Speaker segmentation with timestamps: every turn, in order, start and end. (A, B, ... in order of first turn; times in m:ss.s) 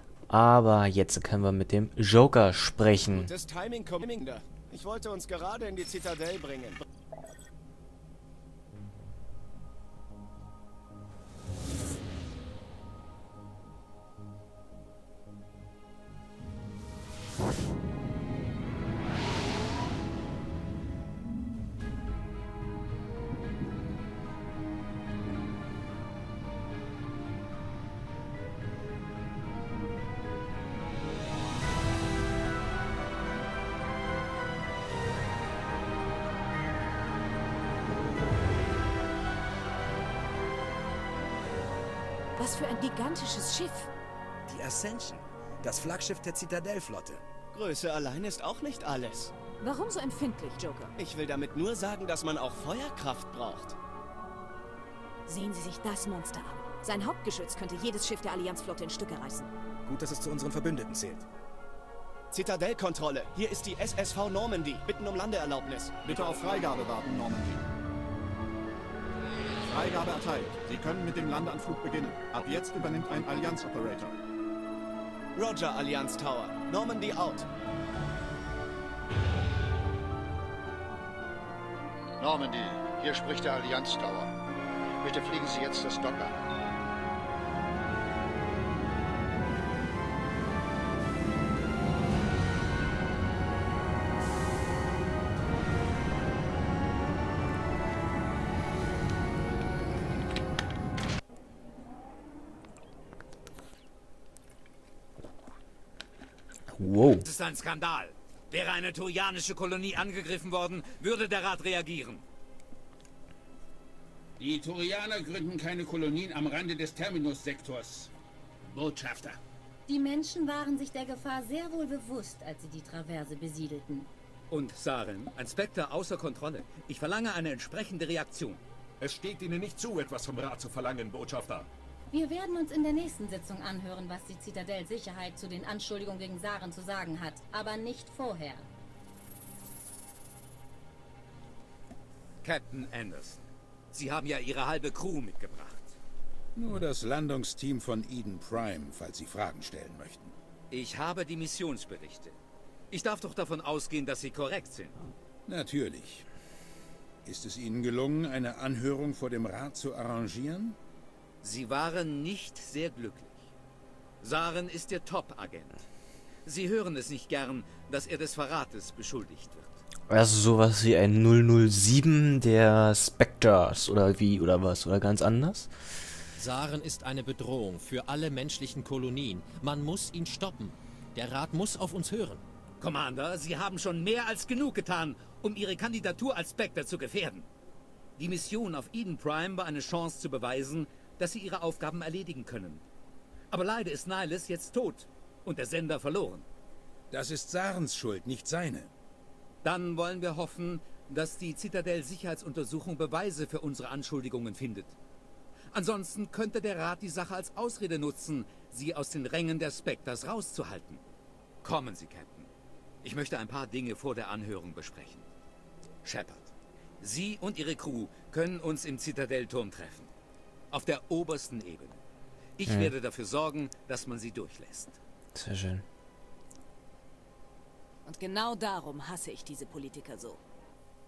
0:00.3-0:03.3 A
0:03.2-0:06.8 B
0:42.4-0:43.9 C
0:44.5-0:47.2 D
0:47.5-0:49.3 B
0:49.6-0:51.0 C
0:51.0-0:53.8 B
0:55.3-0:59.5 C
0:59.9-1:01.2 D
1:02.3-1:06.0 B
1:06.0-1:07.6 E
1:09.7-1:14.1 E
1:15.4-1:17.5 B
1:22.2-1:24.3 F
1:25.0-1:26.4 F
1:46.7-1:47.3 A
1:47.2-1:52.2 G
1:54.4-1:58.1 H
1:58.7-1:59.4 H
1:59.9-2:04.1 I
2:04.5-2:08.6 G
2:12.1-2:18.7 I
2:22.4-2:26.0 G
2:26.6-2:30.3 H
2:30.7-2:32.4 G
2:32.9-2:34.9 G
2:35.5-2:36.3 H
2:37.2-2:40.8 H
2:41.4-2:43.5 G
2:44.2-2:45.8 G
2:46.5-2:49.8 G
2:50.1-2:55.7 A
2:56.4-3:02.4 J
3:02.8-3:07.5 G
3:08.2-3:12.8 G
3:13.5-3:16.4 G
3:17.1-3:18.9 H
3:19.6-3:25.0 G
3:25.7-3:31.0 G
3:31.6-3:32.5 G
3:33.0-3:35.3 G
3:36.0-3:40.1 G
3:40.7-3:42.0 G
3:42.6-3:45.0 G
3:42.7-3:42.9 A
3:45.4-3:45.8 A
3:48.1-3:50.4 C